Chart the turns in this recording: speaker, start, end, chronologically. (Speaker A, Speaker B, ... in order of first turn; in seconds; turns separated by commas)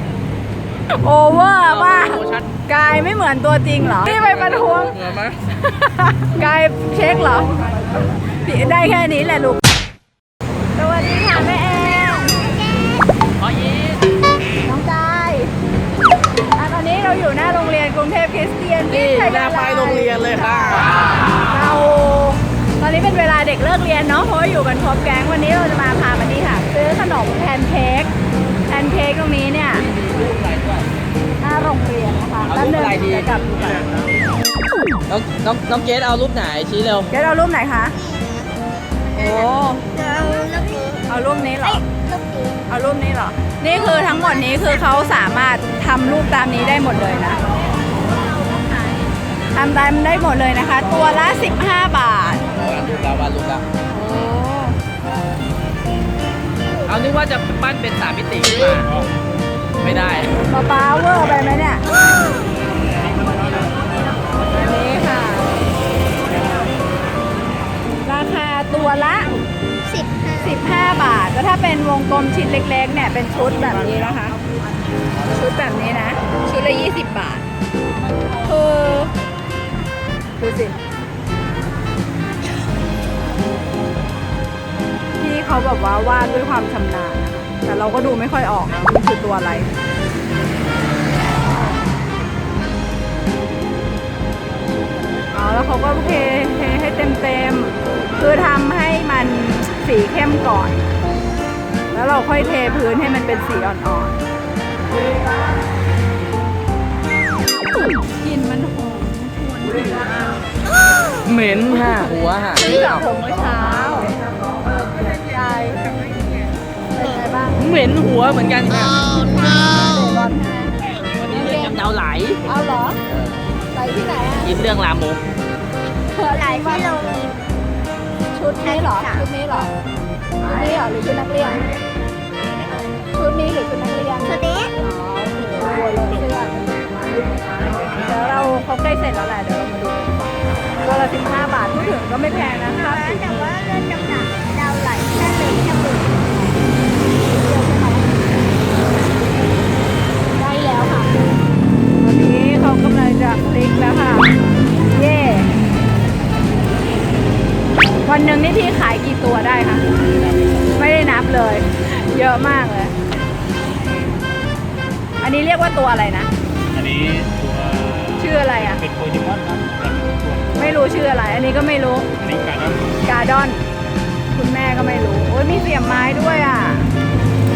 Speaker A: 0.9-5.0, Speaker B: 1.6-2.5, Speaker B: 4.1-5.4, Speaker A: 5.6-7.6, Speaker A: 8.4-9.6, Speaker A: 10.8-12.4, Speaker C: 11.5-13.1, Speaker B: 13.4-14.1, Speaker A: 14.7-15.5, Speaker A: 16.6-28.1, Speaker B: 18.9-21.1, Speaker A: 28.7-29.9, Speaker B: 29.7-30.9, Speaker A: 31.4-33.9, Speaker B: 32.5-33.4, Speaker B: 35.1-37.1, Speaker A: 37.1-38.0, Speaker C: 37.9-41.1, Speaker A: 39.1-39.8, Speaker A: 41.1-41.8, Speaker C: 41.6-42.6, Speaker A: 42.7-47.4, Speaker C: 43.7-44.9, Speaker C: 48.2-49.0, Speaker A: 49.5-52.5, Speaker B: 52.5-53.6, Speaker A: 53.9-54.8, Speaker B: 56.9-59.1, Speaker B: 59.8-60.4, Speaker A: 60.4-61.8, Speaker A: 64.6-65.6, Speaker A: 68.0-69.3, Speaker C: 69.8-70.6, Speaker A: 70.4-74.4, Speaker A: 75.3-77.5, Speaker A: 78.4-79.1, Speaker A: 80.4-80.8, Speaker A: 85.2-89.7, Speaker A: 95.3-100.8, Speaker A: 101.9-104.2, Speaker A: 108.2-110.4, Speaker B: 111.2-113.0, Speaker A: 111.9-114.1, Speaker A: 115.3-115.8, Speaker A: 116.9-117.6, Speaker C: 117.0-117.2, Speaker B: 117.6-119.0, Speaker A: 119.2-120.7, Speaker B: 121.2-122.4, Speaker A: 121.3-121.8, Speaker A: 122.5-123.0, Speaker B: 123.1-123.5, Speaker A: 123.7-124.6, Speaker B: 124.4-125.2, Speaker A: 126.1-126.9, Speaker C: 126.2-127.5, Speaker A: 128.3-129.7, Speaker C: 128.5-129.3, Speaker A: 130.4-131.7, Speaker A: 133.1-137.1, Speaker C: 134.2-134.8, Speaker A: 137.9-143.6, Speaker C: 142.7-146.5, Speaker A: 145.2-145.6, Speaker A: 147.2-148.1, Speaker A: 150.4-151.1, Speaker A: 152.0-154.3, Speaker A: 154.9-155.5, Speaker A: 158.1-159.9, Speaker D: 160.2-160.6, Speaker A: 160.8-162.9, Speaker A: 165.2-166.3, Speaker D: 166.7-168.2, Speaker A: 168.2-168.8, Speaker D: 168.8-170.4, Speaker A: 170.6-172.1, Speaker D: 172.2-172.8, Speaker A: 173.0-173.6, Speaker A: 174.3-176.9